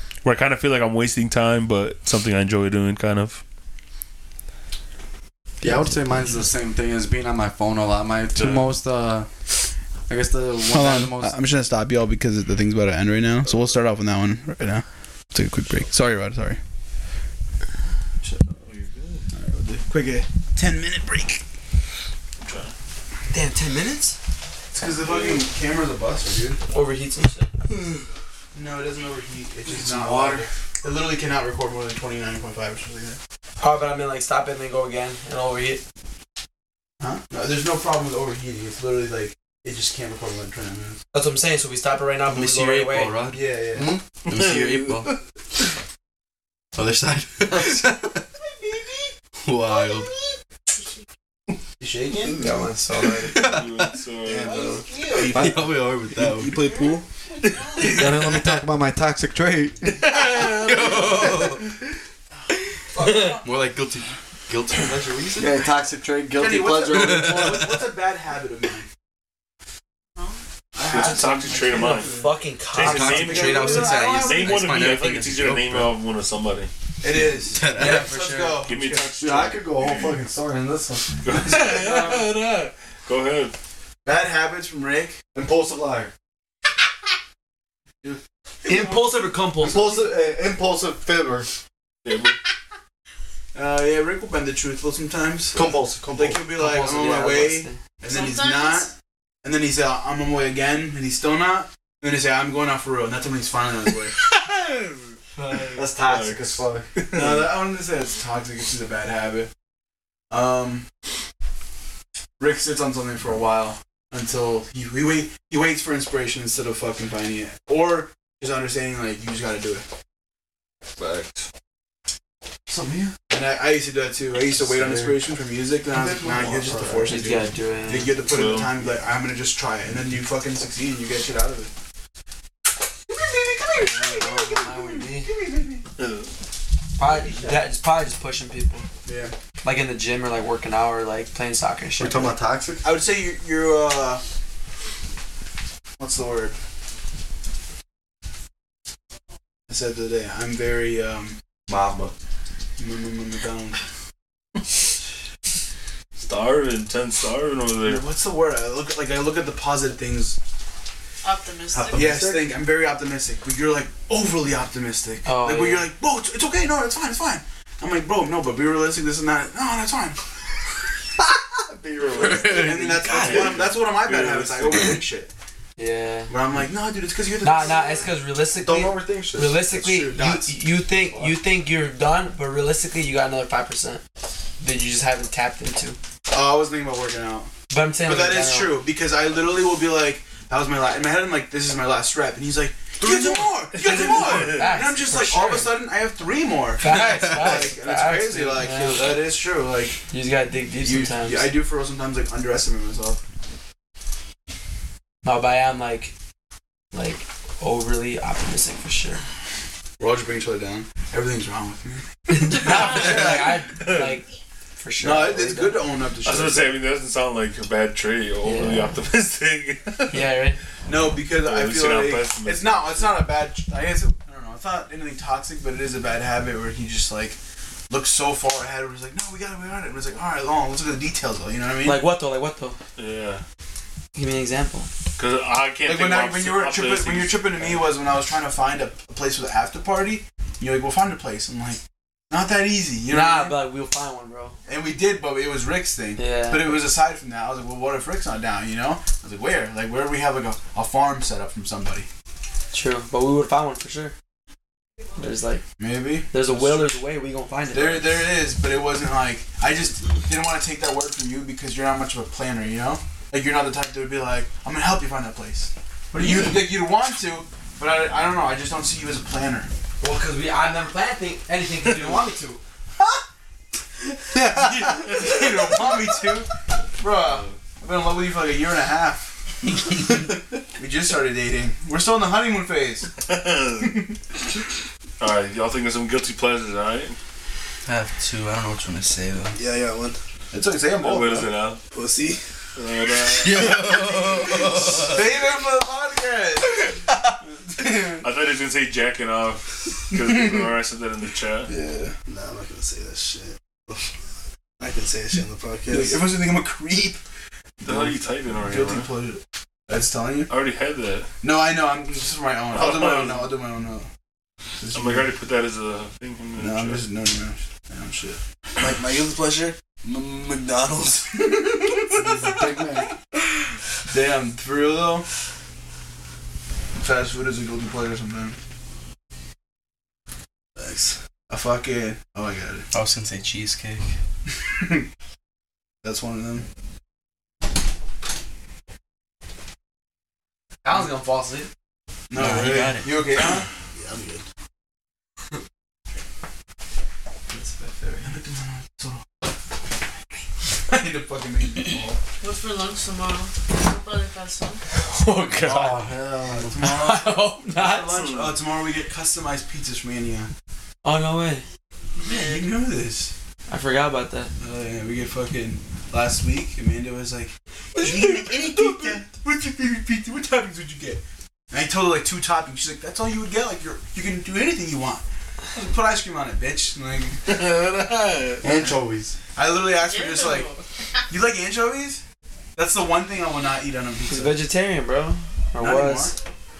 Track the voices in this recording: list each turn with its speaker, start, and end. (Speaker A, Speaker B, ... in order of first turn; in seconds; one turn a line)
Speaker A: 0.2-3.4
Speaker B: 5.6-9.3
Speaker A: 8.3-8.7
Speaker B: 10.1-11.3
Speaker C: 10.7-16.6
Speaker A: 18.4-19.2
Speaker C: 19.3-21.4
Speaker A: 22.4-22.7
Speaker D: 23.3-24.2
Speaker C: 24.7-26.6
Speaker A: 25.1-25.4
Speaker D: 26.7-27.5
Speaker C: 28.5-33.2
Speaker A: 29.9-30.4
Speaker D: 33.6-35.8
Speaker C: 37.0-41.0
Speaker D: 41.1-43.1
Speaker E: 42.3-45.1
Speaker C: 43.3-43.9
Speaker A: 44.4-44.7
Speaker E: 46.7-48.2
Speaker C: 48.6-49.1
Speaker E: 49.4-50.1
Speaker C: 51.8-52.5
Speaker D: 52.4-53.5
Speaker A: 53.3-54.5
Speaker F: 54.3-55.8
Speaker C: 54.4-55.6
Speaker E: 55.1-56.6
Speaker F: 56.4-56.8
Speaker A: 57.6-58.0
Speaker B: 57.8-60.0
Speaker A: 60.0-61.3
Speaker E: 60.5-61.6
Speaker C: 62.9-63.4
Speaker E: 63.3-65.6
Speaker B: 65.4-67.6
Speaker C: 66.3-68.9
Speaker E: 67.1-67.6
Speaker C: 70.7-72.3
Speaker A: 70.8-72.1
Speaker D: 71.7-74.0
Speaker A: 72.7-76.7
Speaker E: 72.8-75.9
Speaker C: 73.0-74.6
Speaker C: 77.0-79.1
Speaker E: 77.5-78.1
Speaker D: 77.7-78.6
Speaker A: 78.6-80.1
Speaker B: 79.2-82.1
Speaker A: 81.2-83.5
Speaker C: 84.0-85.2
Speaker B: 85.3-86.1
Speaker D: 88.6-90.1
Speaker C: 88.7-89.0
Speaker B: 89.6-91.5
Speaker A: 92.0-92.3
Speaker C: 93.5-98.9
Speaker B: 95.5-96.4
Speaker D: 96.5-97.8
Speaker G: 98.1-98.9
Speaker C: 99.4-104.2
Speaker A: 104.2-105.1
Speaker B: 105.5-106.9
Speaker A: 106.0-107.5
Speaker C: 107.1-109.5
Speaker C: 110.3-110.9
Speaker C: 112.4-119.8
Speaker A: 121.0-121.4
Speaker B: 122.7-123.1
Speaker C: 123.3-131.7
Speaker B: 124.7-125.1
Speaker B: 125.9-127.2
Speaker D: 127.0-128.1
Speaker A: 128.3-128.8
Speaker C: 133.1-135.8
Speaker D: 133.8-135.3
Speaker A: 136.0-136.3
Speaker D: 137.0-138.8
Speaker C: 137.0-137.6
Speaker C: 139.0-139.3
Speaker D: 139.6-142.3
Speaker B: 142.0-142.8
Speaker C: 142.8-144.2
Speaker C: 146.0-146.6
Speaker C: 149.7-151.4
Speaker B: 151.7-152.1
Speaker C: 152.8-153.8
Speaker A: 156.2-158.0
Speaker C: 157.8-160.4
Speaker G: 161.2-162.2
Speaker B: 161.7-162.4
Speaker C: 161.9-170.2
Speaker D: 165.2-165.9
Speaker B: 171.2-173.4
Speaker E: 172.2-173.5
Speaker C: 172.5-175.3
Speaker A: 173.1-175.0
Speaker D: 175.8-176.3
Speaker C: 176.3-178.1
Speaker D: 177.4-184.0
Speaker B: 178.6-180.0
Speaker C: 179.7-180.5
Speaker D: 184.6-186.0
Speaker C: 186.3-187.5
Speaker D: 187.7-188.8
Speaker C: 188.0-200.0
Speaker A: 193.1-194.7
Speaker D: 193.7-195.8
Speaker D: 196.8-199.3
Speaker D: 200.1-201.5
Speaker C: 200.8-203.2
Speaker D: 205.2-206.1
Speaker D: 206.9-209.2
Speaker C: 210.0-213.4
Speaker D: 212.3-215.8
Speaker A: 213.1-214.1
Speaker C: 215.0-216.7
Speaker A: 216.2-220.3
Speaker D: 218.4-219.0
Speaker D: 220.1-220.6
Speaker C: 220.9-227.4
Speaker A: 221.3-223.2
Speaker C: 227.9-232.0
Speaker D: 231.8-232.8
Speaker A: 233.0-233.4
Speaker D: 234.1-234.9
Speaker A: 235.2-237.9
Speaker C: 235.8-243.6
Speaker D: 243.1-244.6
Speaker C: 244.7-252.1
Speaker D: 246.2-246.9
Speaker D: 252.7-254.1
Speaker D: 255.2-255.6
Speaker C: 255.8-256.3
Speaker D: 256.3-258.2
Speaker C: 257.7-269.7
Speaker D: 270.0-272.6
Speaker C: 274.1-283.1
Speaker A: 277.2-277.5
Speaker A: 283.2-284.0
Speaker C: 283.8-284.1
Speaker A: 285.2-287.2
Speaker E: 287.9-289.6
Speaker F: 289.5-290.2
Speaker C: 290.5-291.5
Speaker A: 291.0-291.8
Speaker F: 291.9-292.4
Speaker A: 292.8-293.8
Speaker E: 293.3-295.2
Speaker C: 295.0-297.1
Speaker A: 297.8-301.7
Speaker C: 297.8-298.2
Speaker C: 301.7-302.1
Speaker F: 302.3-304.0
Speaker F: 304.8-306.2
Speaker C: 305.9-307.2
Speaker C: 307.8-310.5
Speaker A: 307.8-309.1
Speaker A: 310.5-311.3
Speaker C: 311.4-314.1
Speaker A: 312.7-313.5
Speaker C: 314.8-315.3
Speaker A: 314.9-317.1
Speaker C: 316.6-318.4
Speaker F: 318.8-321.5
Speaker C: 321.3-323.1
Speaker B: 322.2-323.0
Speaker C: 324.1-325.3
Speaker C: 327.0-328.6
Speaker F: 330.8-331.2
Speaker C: 331.5-332.9
Speaker E: 332.9-334.1
Speaker C: 334.6-335.0
Speaker C: 336.0-336.6
Speaker D: 340.8-341.7
Speaker C: 342.3-343.7
Speaker E: 342.3-343.1
Speaker F: 343.9-344.4
Speaker D: 347.6-348.2
Speaker C: 348.2-349.2
Speaker C: 350.9-352.2
Speaker G: 352.4-354.8
Speaker D: 355.0-356.0
Speaker B: 355.6-357.0
Speaker C: 355.6-355.9
Speaker C: 356.6-360.5
Speaker D: 356.8-358.1
Speaker D: 361.0-361.6
Speaker C: 362.2-363.3
Speaker G: 362.2-362.6
Speaker D: 363.7-364.5
Speaker C: 364.6-377.4
Speaker A: 377.4-378.6
Speaker B: 378.6-379.3
Speaker C: 378.6-379.0
Speaker C: 379.6-380.7
Speaker G: 380.0-380.8
Speaker C: 381.3-382.2
Speaker C: 382.7-384.6
Speaker D: 384.3-386.3
Speaker C: 385.8-386.3